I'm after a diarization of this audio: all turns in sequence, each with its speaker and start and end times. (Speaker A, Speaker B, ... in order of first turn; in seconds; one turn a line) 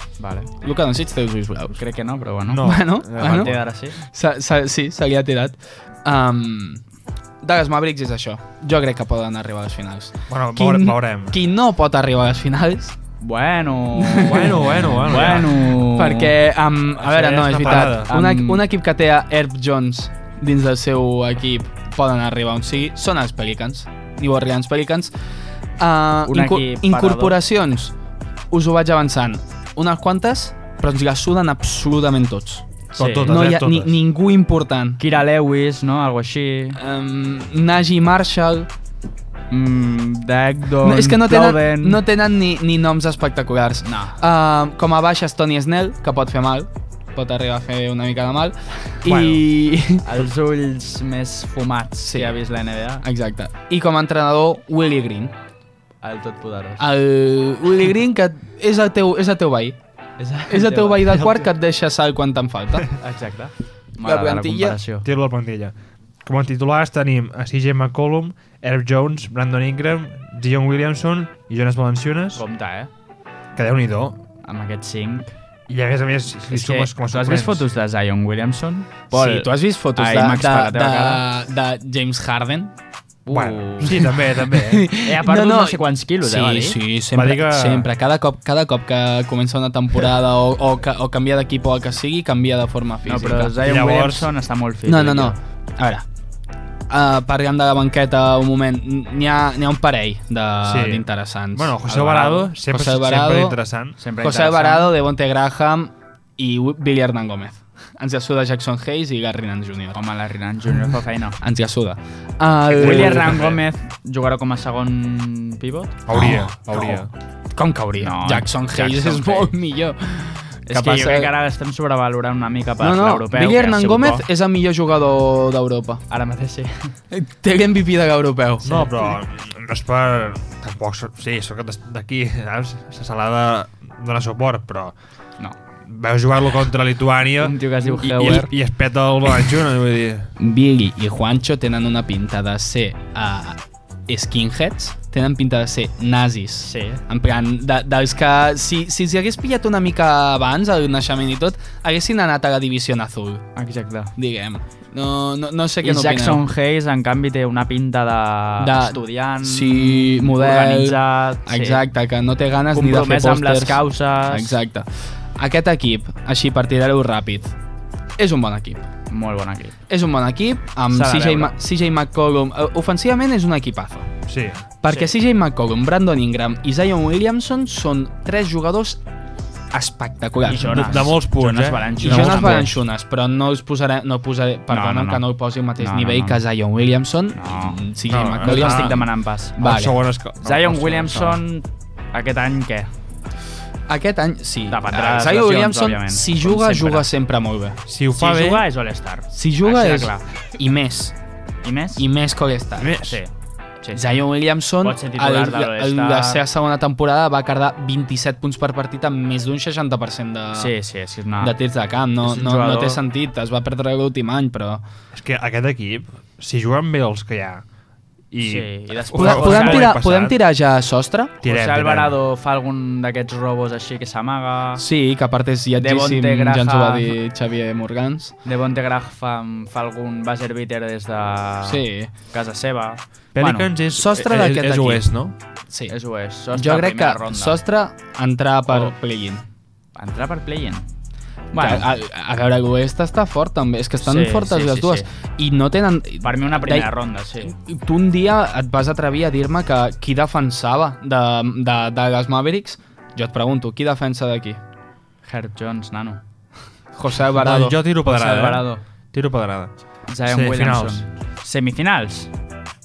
Speaker A: 0.2-0.5
Speaker B: 0.6-1.8
Speaker A: 1.8-4.0
Speaker C: 2.5-3.6
Speaker B: 2.6-6.8
Speaker B: 7.4-13.0
Speaker C: 10.3-11.4
Speaker A: 13.2-16.4
Speaker B: 13.9-25.1
Speaker C: 14.2-15.8
Speaker C: 17.0-18.1
Speaker A: 17.6-18.6
Speaker B: 25.8-27.9
Speaker A: 26.3-27.4
Speaker B: 28.5-32.7
Speaker A: 32.9-33.5
Speaker C: 33.0-34.0
Speaker B: 33.2-35.0
Speaker A: 35.0-36.8
Speaker B: 36.8-38.7
Speaker A: 39.5-42.0
Speaker B: 40.8-50.0
Speaker A: 43.8-44.2
Speaker C: 49.0-49.5
Speaker A: 50.0-53.1
Speaker B: 52.0-52.4
Speaker B: 53.0-55.4
Speaker A: 56.0-56.9
Speaker B: 56.8-59.8
Speaker A: 60.2-61.3
Speaker B: 60.5-62.9
Speaker A: 63.0-65.1
Speaker B: 64.0-64.8
Speaker C: 65.0-72.4
Speaker A: 72.3-72.9
Speaker C: 73.6-74.2
Speaker A: 74.4-75.3
Speaker C: 75.7-77.7
Speaker A: 76.5-81.2
Speaker B: 79.1-82.7
Speaker A: 83.3-84.0
Speaker C: 83.3-84.9
Speaker B: 83.8-93.6
Speaker A: 85.0-86.8
Speaker C: 87.1-87.9
Speaker A: 93.0-95.4
Speaker C: 93.6-94.3
Speaker B: 94.9-96.1
Speaker B: 96.9-103.6
Speaker C: 100.7-104.0
Speaker A: 101.9-102.5
Speaker A: 104.0-104.9
Speaker B: 104.2-110.0
Speaker A: 109.9-111.4
Speaker B: 111.4-113.5
Speaker A: 112.7-116.0
Speaker C: 112.8-113.6
Speaker C: 116.1-117.1
Speaker B: 116.1-121.3
Speaker A: 118.0-119.5
Speaker A: 120.7-124.2
Speaker B: 122.8-126.0
Speaker A: 126.1-127.0
Speaker B: 127.1-129.1
Speaker C: 128.6-134.9
Speaker C: 135.9-140.3
Speaker A: 137.4-138.5
Speaker B: 140.4-153.4
Speaker A: 146.6-147.0
Speaker A: 153.6-154.1
Speaker B: 154.2-156.4
Speaker A: 155.8-161.8
Speaker B: 158.6-167.5
Speaker A: 162.7-164.6
Speaker B: 168.2-168.8
Speaker A: 169.1-169.8
Speaker B: 169.9-174.1
Speaker A: 170.9-171.6
Speaker C: 174.3-174.7
Speaker B: 174.8-179.0
Speaker B: 179.7-181.1
Speaker A: 180.5-182.8
Speaker C: 180.5-182.0
Speaker B: 182.0-190.0
Speaker A: 184.7-185.2
Speaker A: 185.8-186.4
Speaker A: 187.3-187.8
Speaker C: 188.1-189.1
Speaker A: 188.4-189.6
Speaker C: 189.6-191.4
Speaker A: 190.4-192.9
Speaker B: 193.9-197.8
Speaker A: 194.7-197.1
Speaker C: 197.9-198.7
Speaker A: 198.2-200.2
Speaker B: 199.3-201.2
Speaker A: 201.6-202.1
Speaker B: 202.0-203.0
Speaker C: 202.8-203.2
Speaker A: 203.0-203.3
Speaker A: 203.8-204.2
Speaker B: 203.9-210.7
Speaker A: 204.8-206.4
Speaker A: 210.6-211.6
Speaker B: 211.4-214.8
Speaker A: 212.2-213.0
Speaker C: 215.1-217.6
Speaker C: 218.3-220.4
Speaker A: 218.4-219.9
Speaker B: 219.1-221.4
Speaker C: 221.4-222.2
Speaker A: 221.4-224.8
Speaker B: 224.8-228.3
Speaker A: 225.8-227.2
Speaker A: 228.4-233.7
Speaker B: 231.6-232.1
Speaker C: 233.4-235.3
Speaker B: 233.9-235.1
Speaker A: 235.9-237.6
Speaker B: 236.5-239.5
Speaker A: 238.7-238.9
Speaker A: 240.0-240.9
Speaker A: 241.5-241.9
Speaker B: 241.6-246.9
Speaker A: 244.0-245.1
Speaker A: 246.2-247.6
Speaker B: 247.4-254.6
Speaker A: 255.2-256.2
Speaker B: 256.9-257.8
Speaker C: 257.3-259.7
Speaker A: 258.1-258.8
Speaker A: 260.1-262.3
Speaker C: 260.3-261.1